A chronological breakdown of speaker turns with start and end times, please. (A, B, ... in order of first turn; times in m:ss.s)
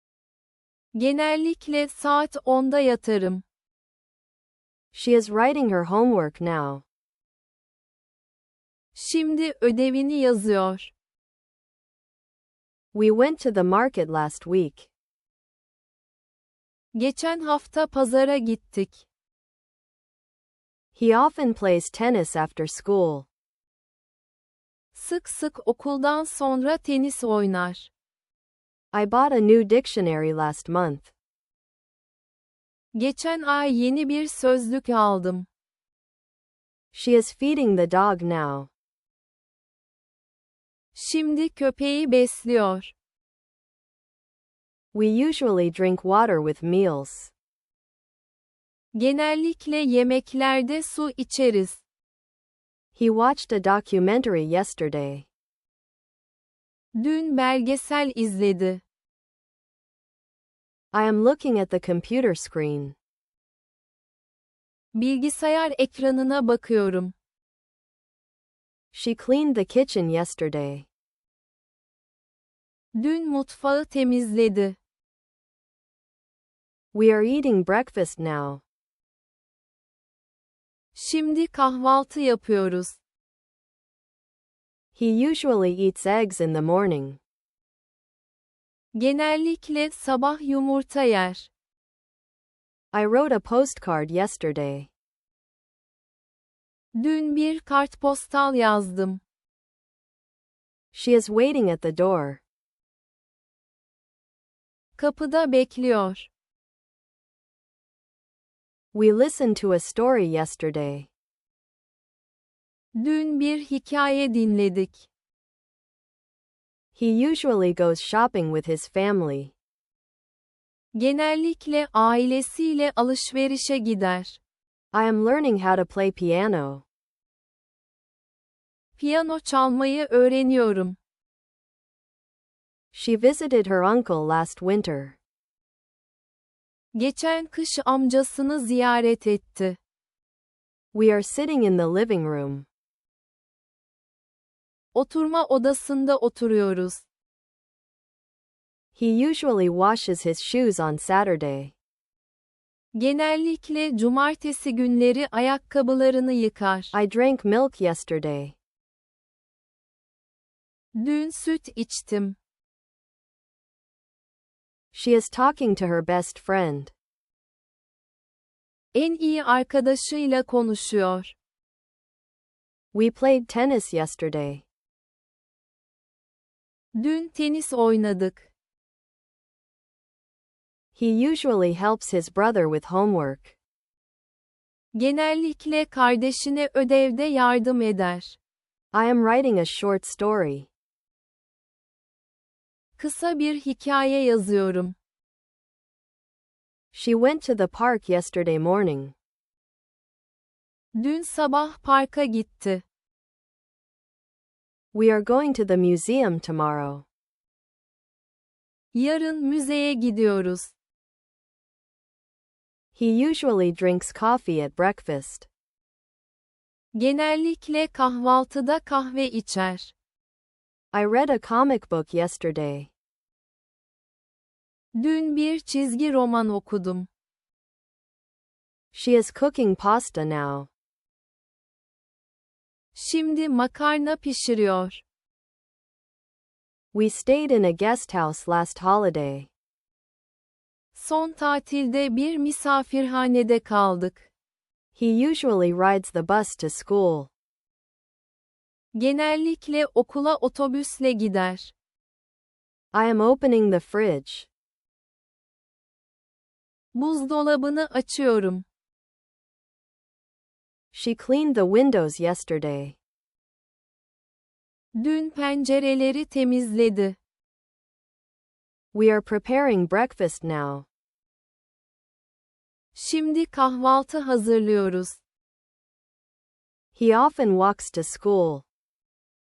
0:00.9-0:03.4 A
0:04.9-0:06.8 B
0:08.9-0:10.9 A
0:12.9-0:14.9 B
0:16.9-0:19.0 A
0:20.9-0:23.3 B
0:24.9-0:27.9 A
0:28.9-0:31.1 B
0:32.9-0:35.5 A
0:36.9-0:38.7 B
0:40.9-0:42.9 A
0:44.9-0:47.3 B
0:48.9-0:51.8 A
0:52.9-0:55.3 B
0:56.9-0:58.8 A
1:00.9-1:03.0 B
1:04.9-1:07.1 A
1:08.9-1:10.9 B
1:12.9-1:14.8 A
1:16.9-1:18.6 B
1:20.9-1:23.0 A
1:24.9-1:27.2 B
1:28.9-1:31.5 A
1:32.9-1:34.9 B
1:36.9-1:39.2 A
1:40.9-1:42.4 B
1:45.0-1:46.3 A
1:48.9-1:51.1 B
1:52.9-1:55.1 A
1:56.9-1:59.5 B
2:00.9-2:04.4 A
2:04.9-2:06.8 B
2:09.0-2:11.0 A
2:12.9-2:15.2 B
2:16.9-2:19.8 A
2:20.9-2:22.7 B
2:24.9-2:27.0 A
2:28.9-2:31.7 B
2:32.9-2:36.9 A
2:36.9-2:38.6 B
2:40.9-2:42.4 A
2:44.9-2:46.9 B
2:48.9-2:51.3 A
2:52.9-2:54.6 B
2:56.9-2:58.5 A
3:00.9-3:03.5 B
3:04.9-3:08.4 A
3:08.9-3:10.7 B
3:13.0-3:15.0 A
3:16.9-3:19.1 B
3:20.9-3:22.8 A
3:24.9-3:27.0 B
3:28.9-3:30.7 A
3:32.9-3:35.5 B
3:36.9-3:39.9 A
3:40.9-3:42.9 B
3:44.9-3:47.1 A
3:48.9-3:50.7 B
3:52.9-3:55.0 A
3:56.9-3:59.5 B
4:00.9-4:04.3 A
4:04.9-4:07.3 B
4:08.9-4:11.7 A
4:12.9-4:14.5 B
4:16.9-4:18.6 A
4:20.9-4:23.0 B
4:24.9-4:27.2 A
4:28.9-4:30.9 B
4:32.9-4:35.2 A
4:36.9-4:38.6 B